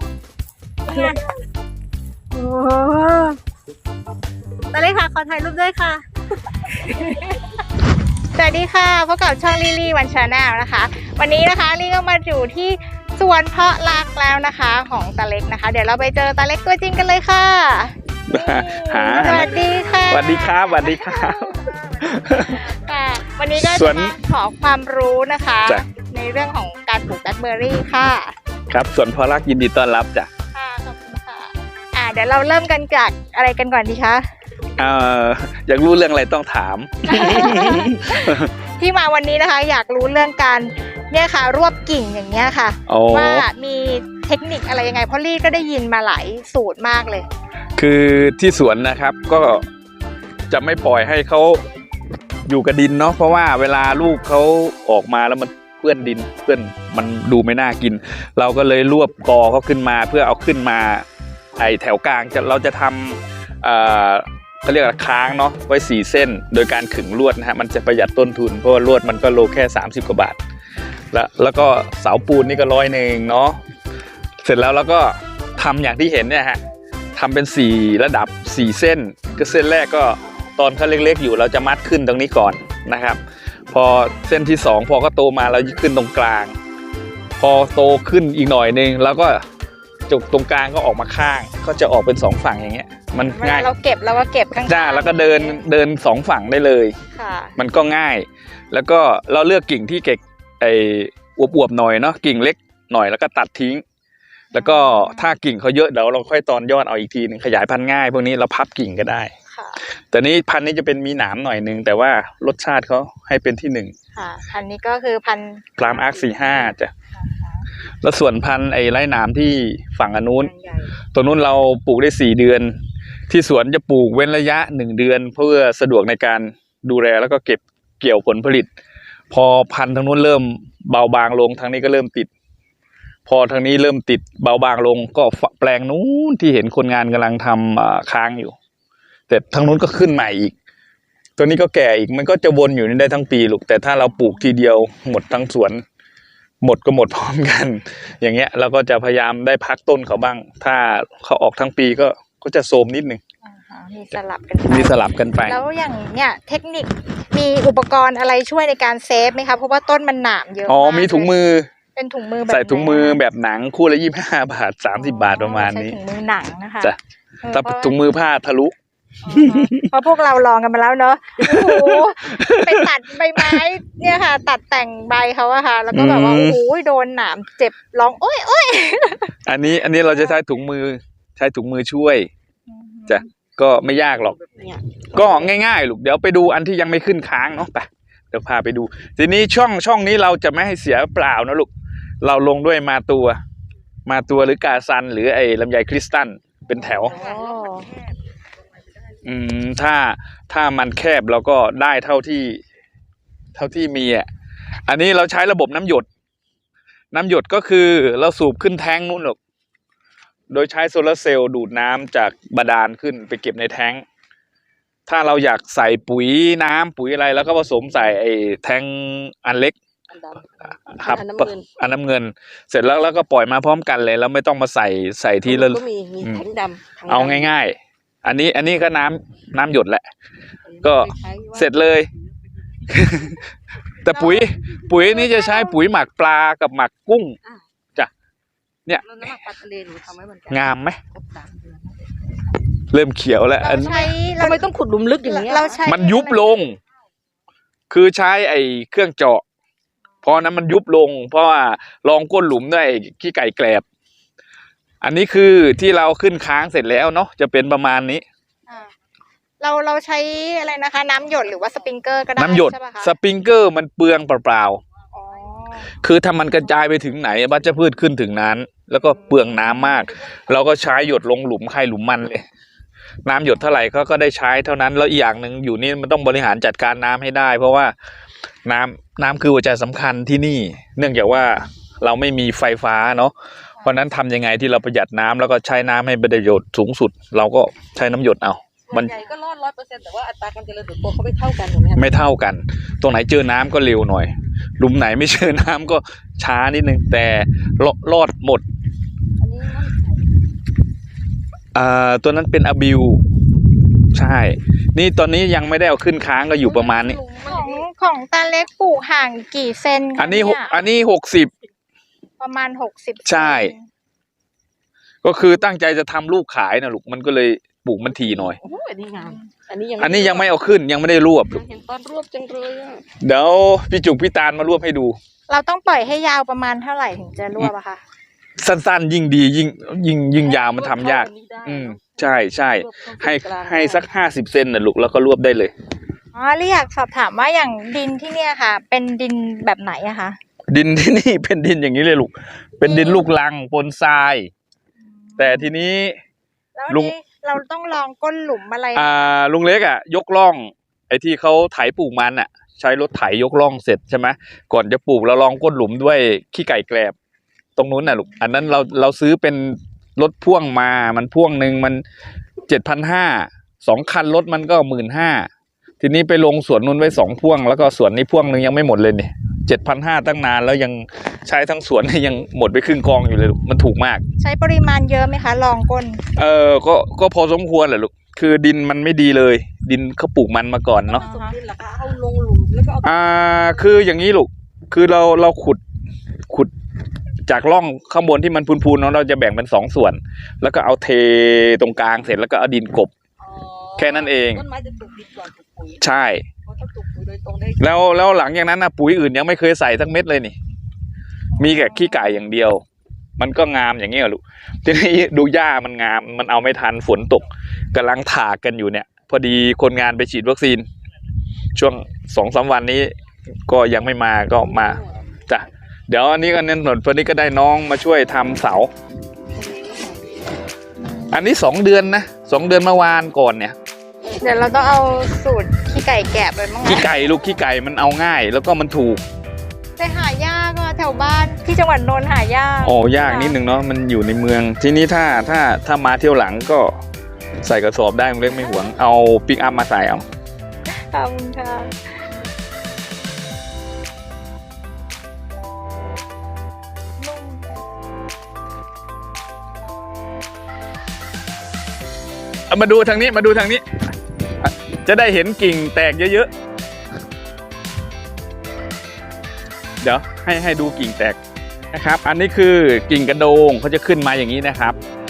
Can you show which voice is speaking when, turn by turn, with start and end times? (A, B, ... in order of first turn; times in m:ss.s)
0:00.9-0:01.2 A
0:02.3-0:03.4 A
0:04.7-0:06.0 A
0:06.8-0:07.4 A
0:08.4-0:21.4 A
0:18.3-0:19.6 B
0:20.1-0:22.7 B
0:22.4-0:28.4 A
0:23.6-0:24.2 B
0:28.7-0:30.3 B
0:30.5-0:34.2 A
0:34.8-0:38.5 B
0:37.0-0:47.3 A
0:42.9-0:43.5 B
0:47.8-0:49.6 B
0:50.5-0:51.6 B
0:52.5-1:01.0 B
1:01.6-1:10.4 B
1:11.1-1:13.6 B
1:14.4-1:16.6 B
1:17.2-1:26.6 B
1:27.4-1:29.4 B
1:30.1-1:33.7 B
1:33.3-1:35.6 A
1:34.7-1:37.0 B
1:37.1-1:37.6 A
1:37.6-1:43.8 B
1:44.5-1:45.4 A
1:44.5-1:49.3 B
1:49.5-1:49.8 A
1:50.1-1:53.9 B
1:54.1-1:57.6 A
1:55.8-1:56.9 B
1:58.0-2:00.5 B
2:00.4-2:00.8 C
2:01.1-2:02.8 B
2:03.3-2:08.7 B
2:09.3-2:12.3 B
2:13.3-2:18.6 B
2:19.3-2:20.5 B
2:21.4-2:25.8 B
2:26.6-2:33.2 B
2:33.4-2:41.4 A
2:34.7-2:35.6 B
2:40.7-2:41.7 B
2:42.0-2:43.2 A
2:42.5-2:46.0 B
2:44.9-2:48.0 A
2:47.5-2:48.7 B
2:49.2-2:59.4 A
2:49.3-2:49.9 B
2:51.4-2:53.6 B
2:55.9-2:56.6 B
2:59.5-3:02.3 B
2:59.9-3:00.4 A
3:02.7-3:03.2 A
3:03.1-3:04.4 B
3:04.1-3:05.6 C
3:05.1-3:11.7 B
3:12.2-3:13.4 B
3:14.1-3:17.1 B
3:16.7-3:18.1 C
3:17.0-3:17.9 A
3:19.2-3:22.6 B
3:23.6-3:24.3 B
3:24.9-3:26.1 B
3:27.1-3:29.4 B
3:30.5-3:34.0 B
3:35.1-3:39.8 B
3:40.1-3:41.7 C
3:41.0-3:46.4 B
3:45.4-3:47.5 C
3:47.1-3:50.1 B
3:50.7-3:53.0 C
3:50.8-3:52.1 B
3:52.9-3:53.4 B
3:54.0-3:57.4 B
3:55.0-3:55.8 A
3:59.0-4:02.4 C
4:00.5-4:01.0 B
4:02.9-4:04.1 B
4:03.6-4:04.6 A
4:03.8-4:05.8 C
4:05.2-4:06.6 A
4:05.8-4:06.8 B
4:07.9-4:09.4 B
4:10.2-4:13.8 B
4:15.0-4:18.2 B
4:18.7-4:18.9 A
4:19.6-4:23.1 A
4:22.4-4:24.8 B
4:25.1-4:25.9 C
4:26.0-4:32.4 B
4:33.3-4:38.0 B
4:38.6-4:49.1 B
4:48.9-4:52.3 C
4:52.0-4:58.6 B
4:59.4-5:00.3 C
5:01.7-5:03.2 B
5:04.1-5:07.2 B
5:06.6-5:07.8 C
5:07.4-5:10.8 A
5:10.2-5:11.5 B
5:12.4-5:13.9 A
5:13.2-5:13.7 B
5:15.2-5:18.6 B
5:18.1-5:20.5 C
5:19.2-5:19.5 A
5:20.0-5:21.6 B
5:21.5-5:23.1 C
5:23.2-5:25.2 B
5:25.5-5:28.0 A
5:28.6-5:35.7 B
5:30.4-5:34.1 C
5:36.3-5:40.4 A
5:40.7-5:44.5 B
5:42.8-5:43.3 A
5:45.0-5:45.7 A
5:45.4-5:46.2 B
5:46.8-5:49.2 A
5:46.9-5:47.1 B
5:49.0-5:57.2 B
5:57.8-6:02.0 B
5:58.2-5:58.5 A
6:02.7-6:05.5 B
6:06.0-6:14.2 B
6:14.4-6:16.2 A
6:16.4-6:21.2 B
6:21.1-6:21.6 A
6:21.1-6:23.9 C
6:23.0-6:25.8 B
6:27.5-6:33.1 B
6:33.4-6:36.0 C
6:34.0-6:34.6 B
6:36.0-6:36.5 B
6:36.7-6:37.9 C
6:37.8-6:40.6 B
6:41.6-6:42.4 A
6:41.6-6:42.8 B
6:43.4-6:50.9 B
6:51.8-6:53.1 B
6:53.7-6:58.9 B
6:54.6-6:55.2 C
6:59.6-7:00.4 C
7:01.0-7:01.4 A
7:01.3-7:03.8 B
7:04.4-7:07.1 A
7:06.8-7:09.2 B
7:10.0-7:13.6 A
7:12.8-7:17.0 B
7:17.6-7:20.2 B
7:18.6-7:19.0 A
7:20.9-7:22.0 A
7:27.2-7:27.7 A
7:32.7-7:33.8 B
7:34.6-7:36.5 B
7:40.0-7:41.4 B
7:41.9-7:45.0 B